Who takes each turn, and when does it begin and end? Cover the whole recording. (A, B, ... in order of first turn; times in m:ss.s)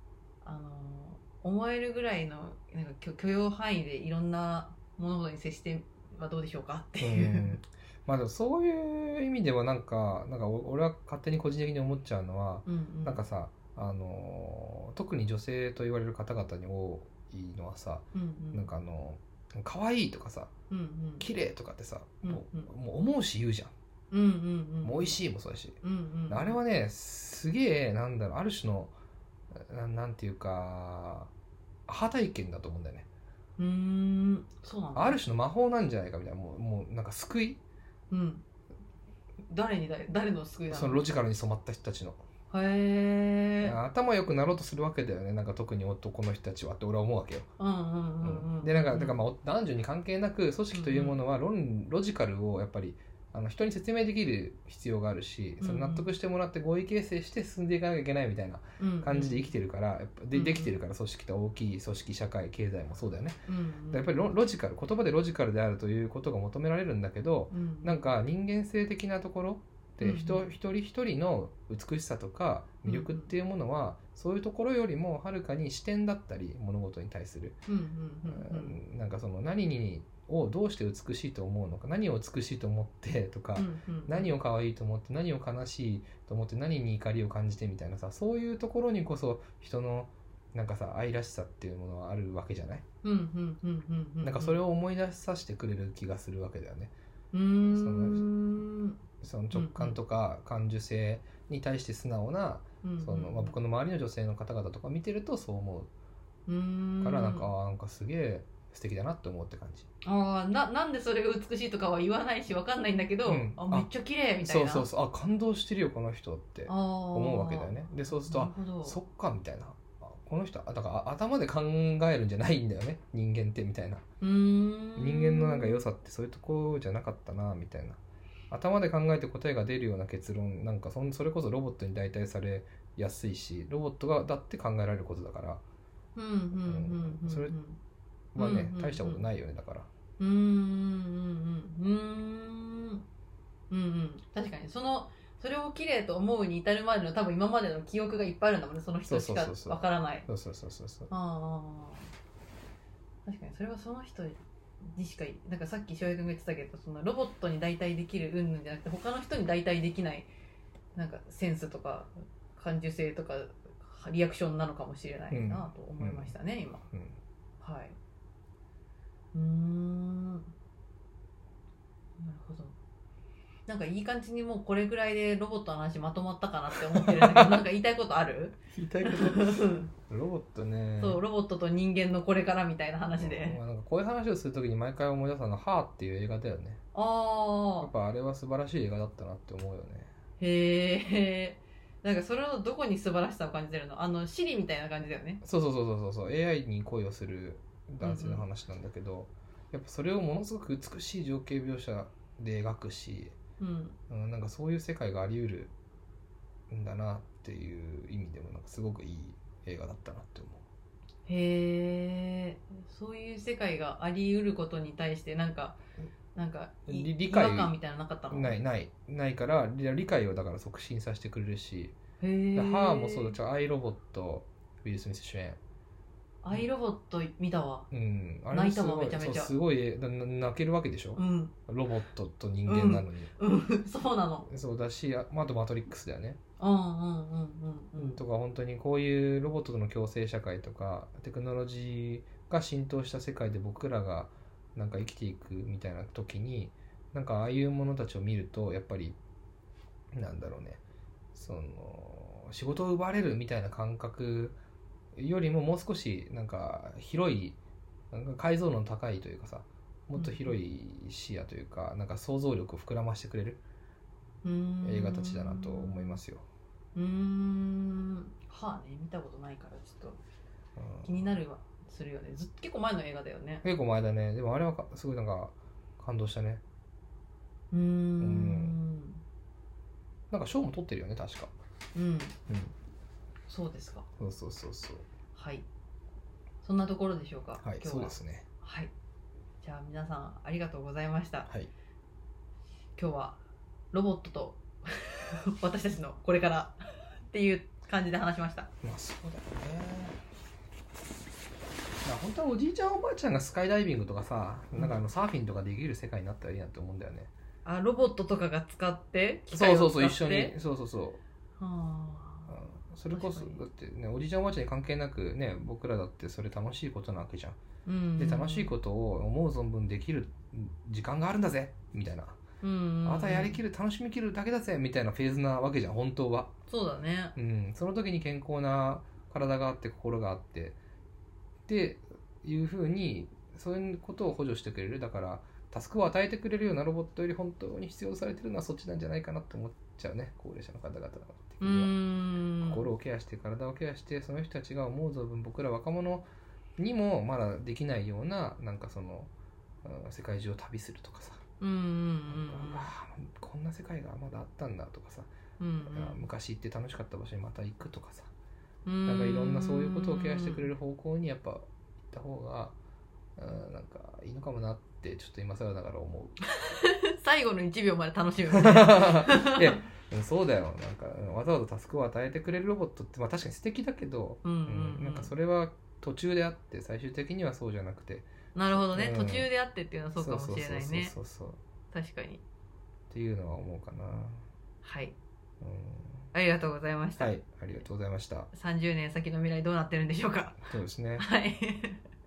0:00.4-0:07.6 A
0:07.0-0:20.5 B
0:12.6-0:13.2 A
0:18.1-0:18.7 A
0:20.7-0:21.3 A
0:21.2-0:23.7 B
0:22.2-0:22.7 A
0:24.1-0:25.2 A
0:24.8-0:28.9 B
0:25.8-0:26.6 A
0:29.5-0:31.3 B
0:31.9-0:33.1 B
0:33.6-0:35.2 A
0:34.9-0:37.6 B
0:38.1-0:38.4 A
0:39.5-0:41.0 A
0:40.7-0:42.2 B
0:42.5-0:43.8 A
0:43.6-0:47.5 B
0:47.6-0:49.2 A
0:48.2-1:03.4 B
0:50.7-0:51.2 A
0:55.6-0:56.1 A
0:58.8-0:59.5 A
1:00.3-1:00.8 A
1:03.5-1:04.2 A
1:03.9-1:17.6 B
1:07.5-1:08.0 A
1:10.0-1:10.4 A
1:12.8-1:13.3 A
1:17.7-1:18.8 A
1:18.3-1:32.8 B
1:23.6-1:24.3 A
1:33.0-1:34.6 A
1:34.2-1:36.9 B
1:37.3-1:39.0 A
1:37.6-1:38.2 B
1:39.2-1:45.9 B
1:39.5-1:40.0 A
1:42.8-1:43.6 A
1:46.5-1:47.5 A
1:47.0-1:49.9 B
1:50.0-1:54.9 A
1:53.2-1:53.9 B
1:54.4-2:04.0 B
1:56.7-1:59.0 A
2:04.2-2:05.8 A
2:05.0-2:15.6 B
2:16.2-2:17.8 A
2:16.6-2:17.5 B
2:18.3-2:19.9 B
2:18.4-2:19.2 A
2:20.2-2:23.0 A
2:23.7-2:30.3 A
2:29.0-2:31.1 B
2:31.1-2:32.1 A
2:33.2-2:40.3 A
2:40.9-2:46.8 A
2:45.3-2:46.3 B
2:46.9-2:47.2 B
2:47.6-2:48.0 A
2:49.3-2:50.5 A
2:52.2-2:52.7 A
2:53.7-2:59.9 A
2:56.9-2:57.6 B
2:58.7-3:01.2 B
3:01.0-3:03.6 A
3:03.2-3:06.8 B
3:06.9-3:07.9 A
3:07.8-3:10.1 B
3:10.4-3:15.4 A
3:15.4-3:23.4 B
3:18.0-3:18.4 A
3:23.6-3:24.0 A
3:24.1-3:25.7 B
3:26.7-3:30.6 B
3:31.3-3:35.8 A
3:36.3-3:38.5 A
3:36.9-3:37.7 B
3:38.3-3:41.9 B
3:42.2-3:43.4 A
3:42.5-3:45.6 B
3:46.4-3:47.9 A
3:47.9-3:53.3 B
3:48.5-3:49.5 A
3:51.2-3:51.5 A
3:52.7-3:54.5 A
3:54.5-3:56.4 B
3:56.6-3:58.2 A
3:58.0-4:09.2 B
4:10.1-4:10.8 B
4:11.3-4:14.6 B
4:15.1-4:17.6 B
4:18.1-4:23.6 B
4:20.2-4:20.5 A
4:24.4-4:26.2 A
4:24.8-4:26.4 B
4:26.9-4:30.2 A
4:30.8-4:31.1 B
4:31.0-4:33.6 A
4:33.6-4:36.6 B
4:37.7-4:39.2 A
4:38.2-4:38.8 B
4:40.3-4:41.5 B
4:41.9-4:42.4 A
4:42.5-4:42.7 B
4:43.5-4:44.1 A
4:44.2-4:45.1 B
4:45.3-4:45.6 A
4:46.6-4:48.9 A
4:47.6-4:48.5 B
4:49.6-4:51.5 A
4:53.0-4:53.4 A
4:53.9-4:58.7 A
4:58.8-5:00.2 B
5:02.0-5:07.3 B
5:04.7-5:05.0 A
5:07.6-5:10.5 A
5:09.5-5:11.2 B
5:11.6-5:13.6 A
5:12.5-5:17.6 B
5:17.8-5:18.7 A
5:18.2-5:22.4 B
5:22.6-5:23.6 A
5:23.0-5:26.5 B
5:26.7-5:27.3 A
5:27.4-5:30.8 B
5:31.7-5:41.9 B
5:41.6-5:42.9 A
5:42.6-5:49.3 B
5:49.8-5:51.4 B
5:51.6-5:52.9 A
5:52.3-5:55.3 B
5:55.6-5:56.3 A
5:55.9-5:58.3 B
5:58.8-6:00.7 A
5:59.0-6:02.8 B
6:03.4-6:06.4 B
6:06.4-6:09.8 A
6:08.5-6:19.5 B
6:14.4-6:15.3 A
6:18.5-6:21.1 A
6:20.2-6:21.6 B
6:21.9-6:22.4 A
6:23.1-6:24.5 B
6:24.8-6:25.2 A
6:25.6-6:26.3 B
6:26.3-6:27.3 A
6:27.2-6:28.5 B
6:28.5-6:32.0 A
6:30.6-6:31.3 B